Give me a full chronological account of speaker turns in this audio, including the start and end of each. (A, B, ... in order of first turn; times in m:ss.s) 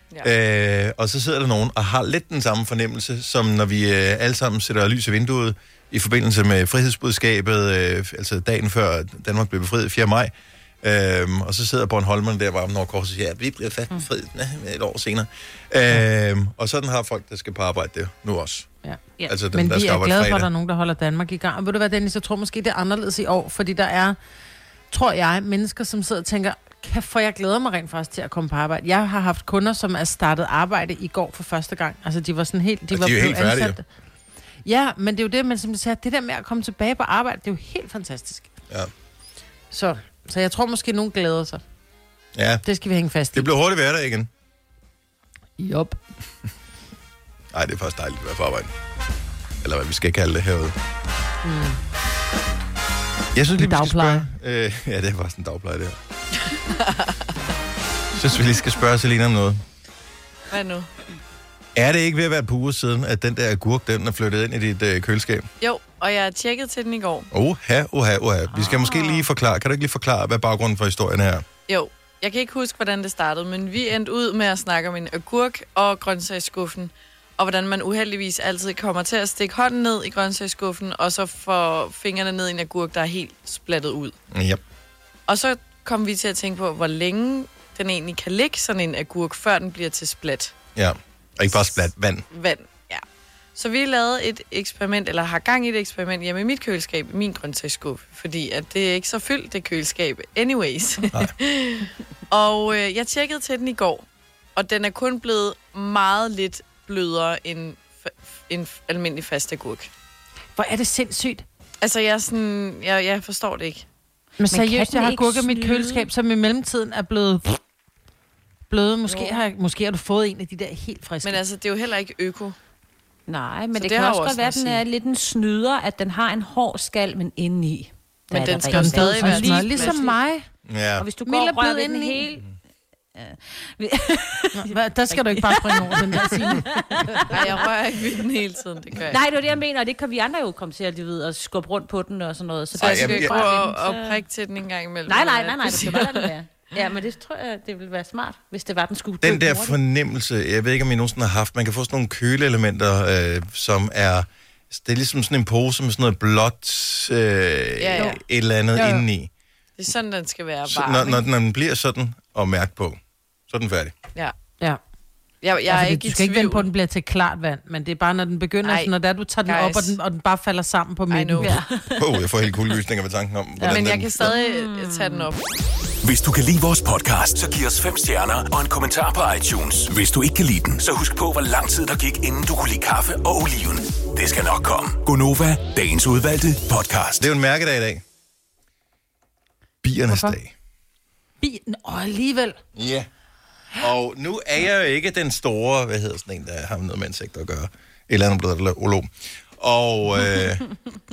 0:00.2-0:18.7 A
0:18.8-0:24.2 B
0:19.3-0:20.5 A
0:24.9-0:33.8 B
0:32.9-0:33.8 A
0:34.6-0:38.5 B
0:39.7-0:41.6 B
0:42.3-0:42.6 A
0:42.6-0:43.5 B
0:43.3-0:44.3 A
0:45.6-0:46.0 B
0:47.5-0:48.7 A
0:49.6-0:50.7 A
0:51.4-0:51.8 B
0:53.3-0:56.0 A
0:53.6-0:54.3 B
0:56.7-0:57.2 C
0:58.1-0:59.6 A
1:00.5-1:00.9 C
1:01.7-1:05.4 A
1:05.6-1:07.3 C
1:07.3-1:11.4 A
1:08.5-1:09.2 D
1:11.7-1:24.1 C
1:24.3-1:24.6 A
1:25.3-1:30.5 C
1:30.8-1:32.2 A
1:31.5-1:33.0 C
1:33.6-1:44.0 C
1:44.6-1:49.9 C
1:50.6-1:51.4 B
1:51.8-1:53.8 C
1:54.4-1:57.6 B
1:54.5-1:56.1 D
1:58.7-2:01.4 B
1:59.1-1:59.4 D
2:01.2-2:02.6 C
2:03.3-2:10.1 D
2:03.7-2:04.8 C
2:08.3-2:10.1 C
2:08.7-2:10.4 B
2:10.6-2:11.1 A
2:11.0-2:12.5 D
2:11.2-2:12.2 B
2:13.1-2:17.7 D
2:14.5-2:17.2 B
2:17.3-2:19.2 C
2:19.1-2:24.2 D
2:22.7-2:26.3 C
2:22.8-2:23.4 A
2:25.1-2:29.8 D
2:29.2-2:39.3 A
2:37.8-2:38.2 C
2:38.7-2:39.0 B
2:39.8-2:41.2 C
2:40.7-2:43.9 A
2:45.4-2:46.7 C
2:45.7-2:51.6 B
2:48.6-2:48.9 C
2:49.4-2:50.0 C
2:51.1-2:51.5 C
2:51.4-2:52.0 D
2:52.0-2:54.4 A
2:53.7-2:55.4 C
2:54.2-2:55.3 D
2:56.0-3:07.3 E
3:07.2-3:08.0 A
3:09.8-3:10.5 A
3:10.1-3:10.4 B
3:11.4-3:12.6 B
3:12.7-3:13.1 A
3:13.8-3:20.6 A